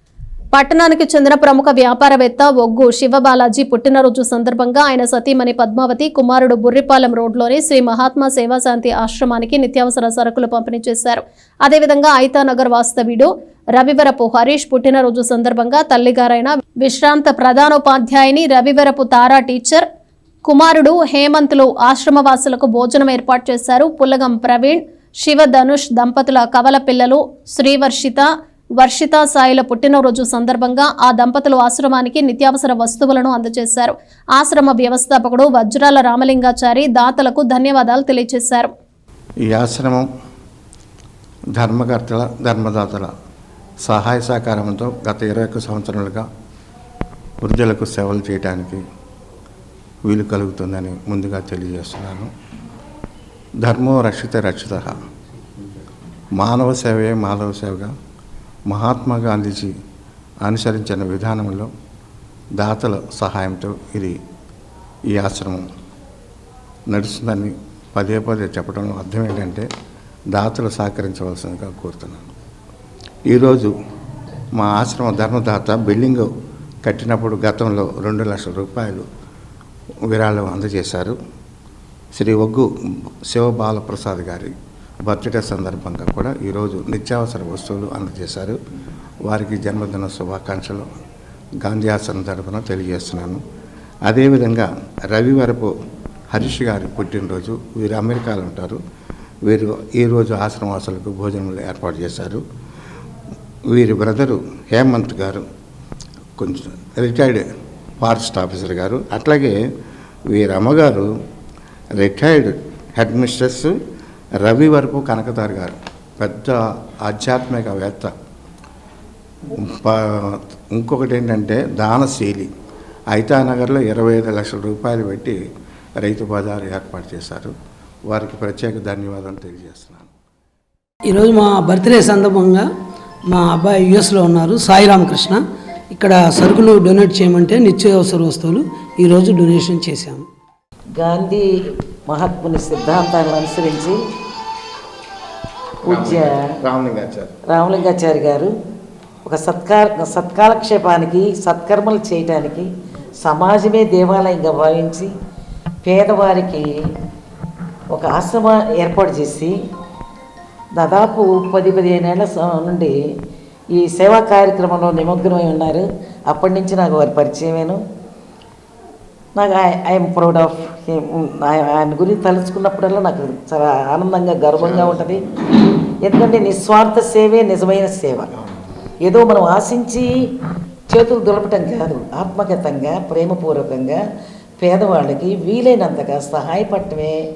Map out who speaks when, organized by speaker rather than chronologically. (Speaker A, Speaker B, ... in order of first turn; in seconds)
Speaker A: 0.5-19.9, 20.5-38.7
Speaker B: 39.5-40.1, 41.6-43.1, 43.9-46.3, 47.4-48.8, 50.1-52.3, 53.6-54.9, 56.4-57.9, 58.7-59.7, 60.4-61.7, 62.6-64.2, 65.1-65.6, 66.9-69.7, 70.3-72.2, 73.3-73.7, 74.6-76.3, 76.8-79.1, 80.1-81.2, 82.2-82.7, 83.3-84.5, 85.1-88.6, 89.3-90.9, 91.6-93.4, 94.1-95.7, 96.3-98.8, 99.5-102.4, 103.7-105.4, 106.4-107.5, 108.0-109.6, 110.3-111.1, 112.0-113.7, 114.4-118.1, 119.6-122.5, 123.1-125.4, 126.0-127.5, 128.1-130.1, 145.8-147.4, 174.6-175.1, 178.3-178.6
Speaker C: 131.1-132.7, 133.3-140.3
Speaker D: 141.0-141.5, 142.1-144.0, 145.8-146.4, 147.5-148.5, 149.3-152.7, 153.2-155.1, 155.8-156.7, 157.9-159.5, 160.8-162.9, 163.8-167.8, 169.4-175.2, 176.0-178.3, 179.0-180.1, 180.9-184.0, 184.6-187.2